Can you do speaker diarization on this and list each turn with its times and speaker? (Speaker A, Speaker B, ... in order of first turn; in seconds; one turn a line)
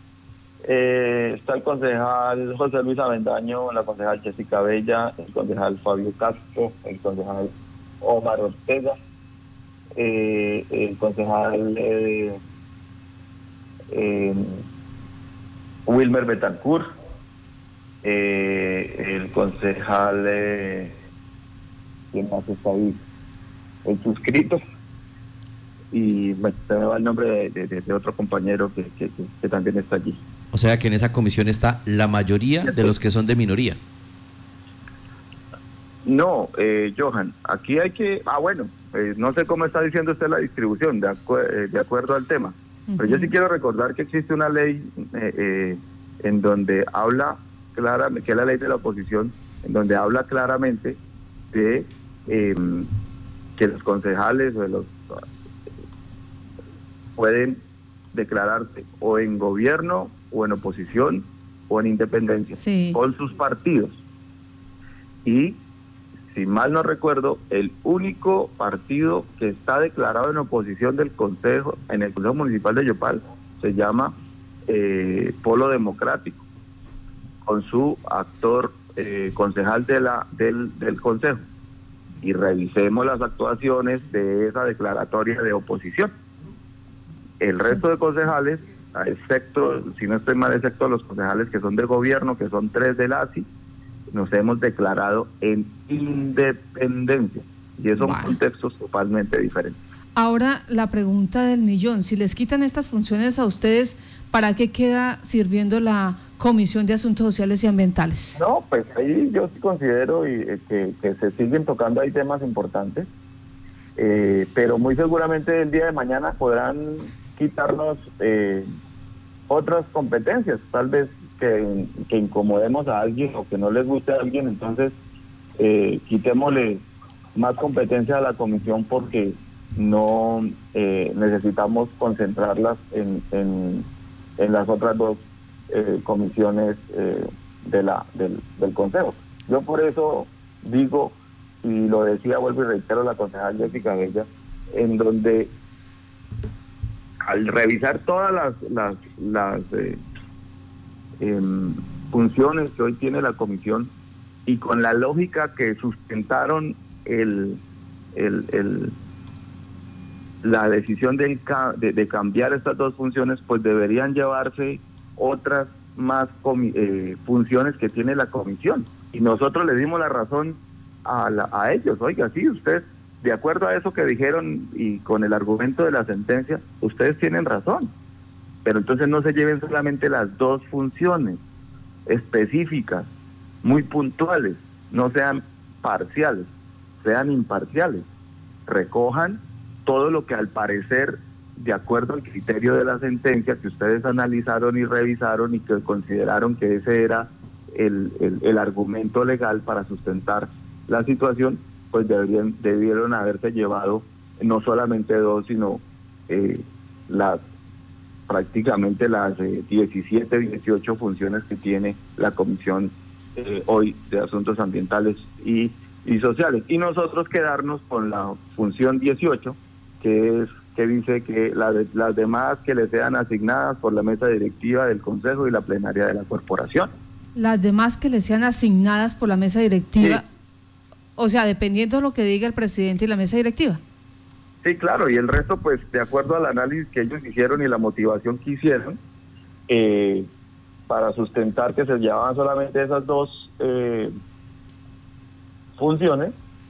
Speaker A: 0.6-9.0
Speaker A: 9.9-12.4
Speaker A: 13.9-14.6
Speaker A: 15.9-16.9
Speaker A: 18.0-21.0
Speaker A: 22.1-23.0
Speaker A: 23.8-24.6
Speaker A: 25.9-30.2
Speaker B: 30.5-33.8
Speaker A: 32.7-32.9
Speaker A: 36.0-51.0
Speaker C: 42.9-43.3
Speaker A: 51.5-52.9
Speaker A: 53.6-55.2
Speaker A: 57.1-57.6
Speaker A: 58.1-64.0
Speaker C: 62.6-63.0
Speaker A: 65.2-65.6
Speaker A: 66.3-74.1
Speaker A: 74.7-76.4
Speaker A: 77.4-81.4
Speaker A: 82.2-86.1
Speaker A: 87.4-93.5
Speaker A: 94.1-99.8
Speaker C: 98.0-98.4
Speaker C: 100.2-108.4
Speaker A: 108.3-113.1
Speaker A: 114.0-118.7
Speaker A: 119.5-124.9
Speaker A: 125.6-126.8
Speaker A: 127.3-145.5
Speaker A: 147.2-150.0
Speaker A: 151.2-153.9
Speaker A: 154.4-157.6
Speaker A: 158.1-158.9
Speaker A: 160.4-177.9
Speaker A: 178.6-181.4
Speaker A: 182.1-183.1
Speaker A: 183.6-186.5
Speaker A: 187.0-188.1
Speaker A: 188.7-207.4
Speaker A: 208.3-226.9
Speaker C: 227.3-230.2
Speaker C: 231.2-233.8
Speaker A: 234.6-239.0
Speaker A: 239.7-240.3
Speaker A: 240.9-244.1
Speaker A: 245.8-246.3